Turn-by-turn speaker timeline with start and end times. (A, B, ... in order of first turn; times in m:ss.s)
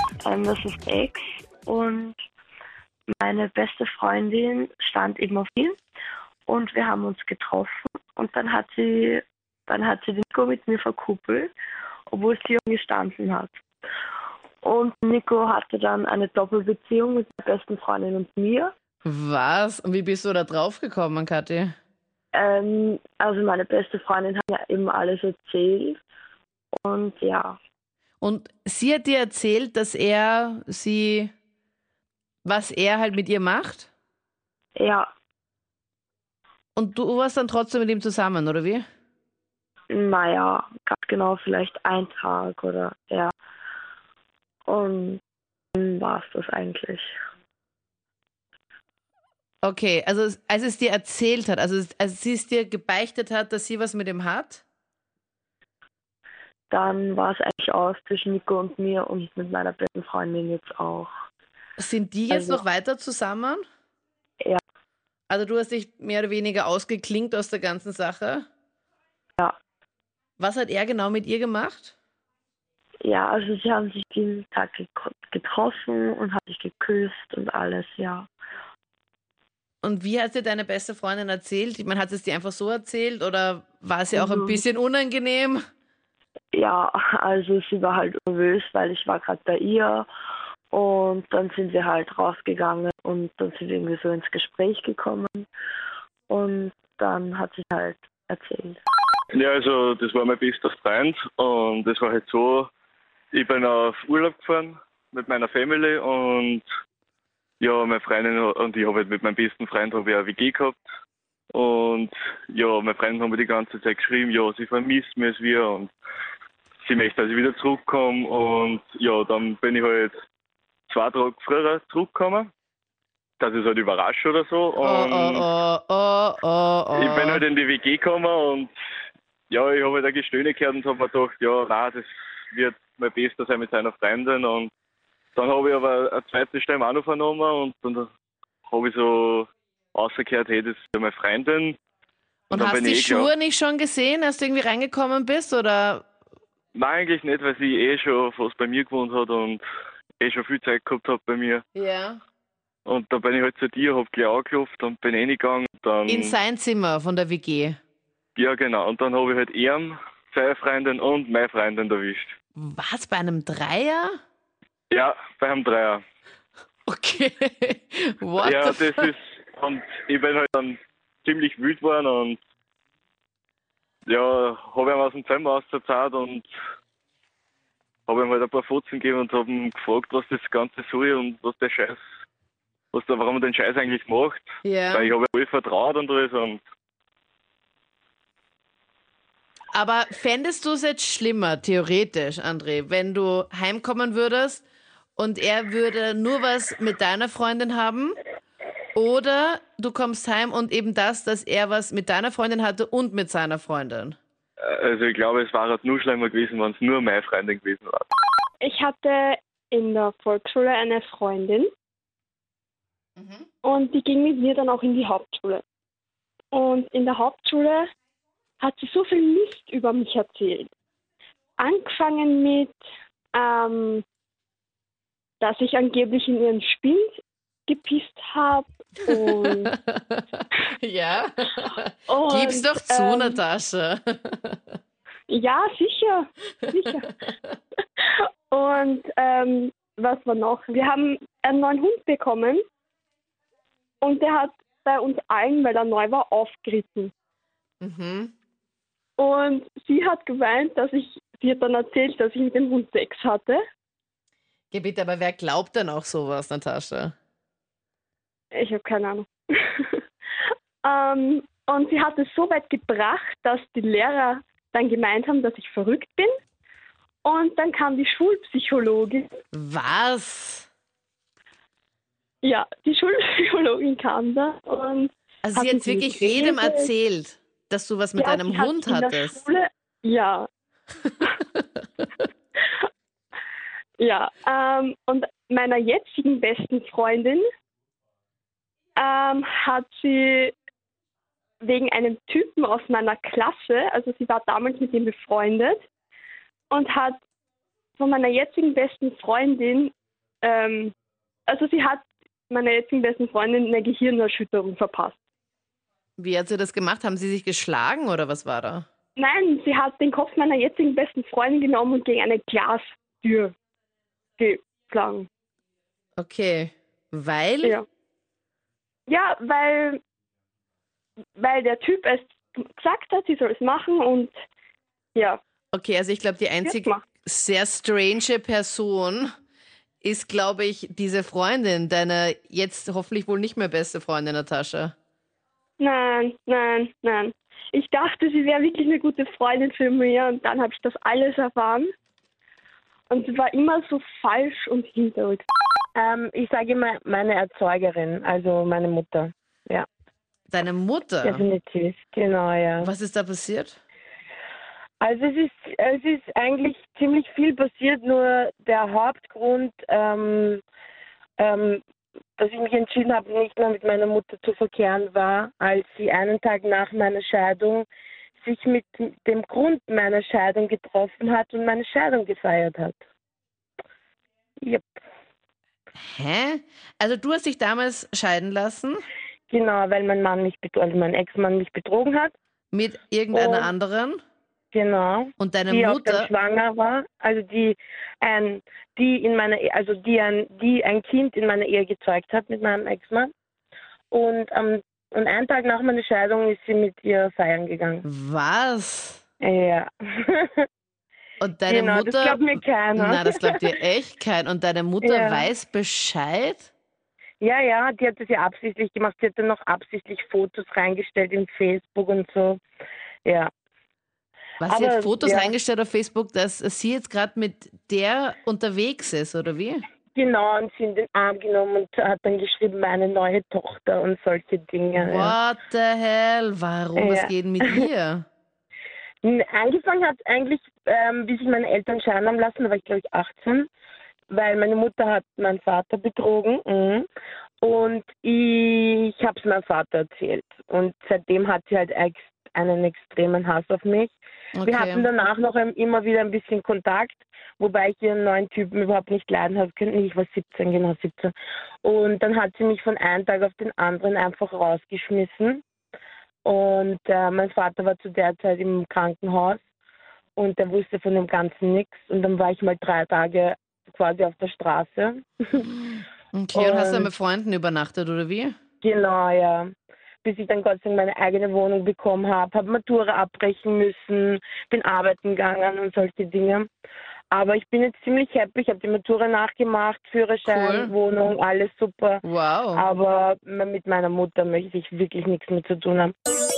0:00.2-0:02.2 A
0:03.2-0:05.8 A
0:06.5-0:11.5 A
0:12.1-0:13.5 A
0:14.6-0:18.7 A
0:19.0-0:21.7 B
0:22.3-0:26.0 A
0:26.7-0:27.6 A
0:28.2-0:31.3 B
0:32.4-0:33.9 B
0:34.8-0:35.1 A
0:36.8-0:38.8 B
0:39.9-0:43.3 A
0:44.7-0:45.2 A
0:45.8-0:47.2 A
0:49.6-0:54.6 B
0:56.7-1:01.1 A
1:01.8-1:03.6 B
1:02.3-1:02.6 A
1:05.3-1:08.4 B
1:10.4-1:12.0 B
1:13.0-1:18.3 A
1:19.8-1:25.6 B
1:24.1-1:24.6 A
1:26.5-1:30.1 A
1:30.7-1:35.4 A
1:36.3-1:38.8 A
1:39.3-1:42.7 C
1:43.3-1:46.6 C
1:47.6-1:50.8 C
1:51.5-1:55.9 C
1:56.8-2:00.1 C
2:00.9-2:02.5 C
2:03.4-2:05.4 C
2:04.8-2:07.4 B
2:06.9-2:08.7 C
2:09.5-2:14.7 C
2:15.4-2:18.1 C
2:18.7-2:21.8 C
2:22.5-2:26.0 B
2:22.5-2:23.3 C
2:26.7-2:29.6 C
2:30.2-2:31.6 C
2:31.7-2:32.2 B
2:32.8-2:36.3 C
2:36.1-2:37.8 B
2:38.4-2:42.3 C
2:42.6-2:44.2 B
2:44.9-2:46.0 C
2:46.9-2:49.0 B
2:48.4-2:52.4 C
2:54.1-2:56.4 C
2:58.1-3:02.0 C
3:02.9-3:06.6 C
3:04.6-3:05.1 B
3:09.7-3:14.6 B
3:15.2-3:18.2 B
3:18.9-3:24.2 B
3:24.7-3:28.1 C
3:28.6-3:31.7 D
3:33.2-3:33.4 B
3:33.6-3:35.6 D
3:36.5-3:37.9 D
3:38.6-3:40.7 D
3:41.6-3:42.7 D
3:43.3-3:44.0 D
3:45.4-3:49.7 D
3:49.9-3:54.8 B
3:52.1-3:53.4 D
3:55.3-3:57.1 D
3:58.0-4:02.6 D
4:04.0-4:07.1 D
4:07.8-4:08.3 B
4:09.2-4:13.6 D
4:14.7-4:17.1 B
4:18.5-4:20.0 D
4:20.8-4:26.3 D
4:27.2-4:29.3 D
4:29.5-4:30.7 B
4:32.4-4:36.9 D
4:35.4-4:39.4 B
4:38.2-4:40.5 D
4:44.0-4:47.4 D
4:49.0-4:50.5 D
4:51.6-4:55.8 D
4:56.7-4:57.2 D
4:58.0-5:00.9 D
5:01.5-5:05.2 D
5:06.2-5:08.8 B
5:09.2-5:13.5 D
5:14.4-5:15.3 D
5:16.2-5:17.8 B
5:19.1-5:20.0 D
5:21.4-5:24.3 D
5:25.1-5:25.4 D
5:25.7-5:29.3 B
5:26.6-5:27.0 D
5:30.0-5:34.9 B
5:35.8-5:41.9 D
5:43.1-5:45.4 D
5:45.9-5:49.9 E
5:50.5-5:51.4 B
5:51.2-5:52.9 E
5:52.8-5:53.8 B
5:55.0-6:00.6 E
6:01.4-6:01.8 E
6:02.4-6:07.8 E
6:08.4-6:13.0 E
6:16.0-6:19.0 B
6:19.5-6:22.3 E
6:22.7-6:24.2 B
6:23.3-6:23.7 E
6:24.7-6:33.3 E
6:25.4-6:26.3 B
6:34.1-6:38.0 E
6:38.0-6:39.2 B
6:39.4-6:40.6 E
6:41.4-6:46.7 B
6:41.7-6:43.5 E
6:45.0-6:45.5 E
6:47.4-6:52.6 E
6:53.2-6:53.5 E
6:54.6-6:59.8 B
6:54.7-6:55.5 E
7:00.1-7:05.4 E
7:05.0-7:08.2 B
7:07.0-7:07.8 E
7:09.2-7:13.7 E
7:14.3-7:17.1 E
7:17.6-7:35.6 E
7:24.6-7:25.1 B
7:36.4-7:39.6 E
7:40.4-7:45.7 E
7:46.3-7:48.5 B
7:46.5-7:47.1 E
7:48.8-7:56.7 E
7:57.3-8:02.2 E
8:00.4-8:00.9 B
8:02.2-8:02.8 B
8:02.7-8:06.1 E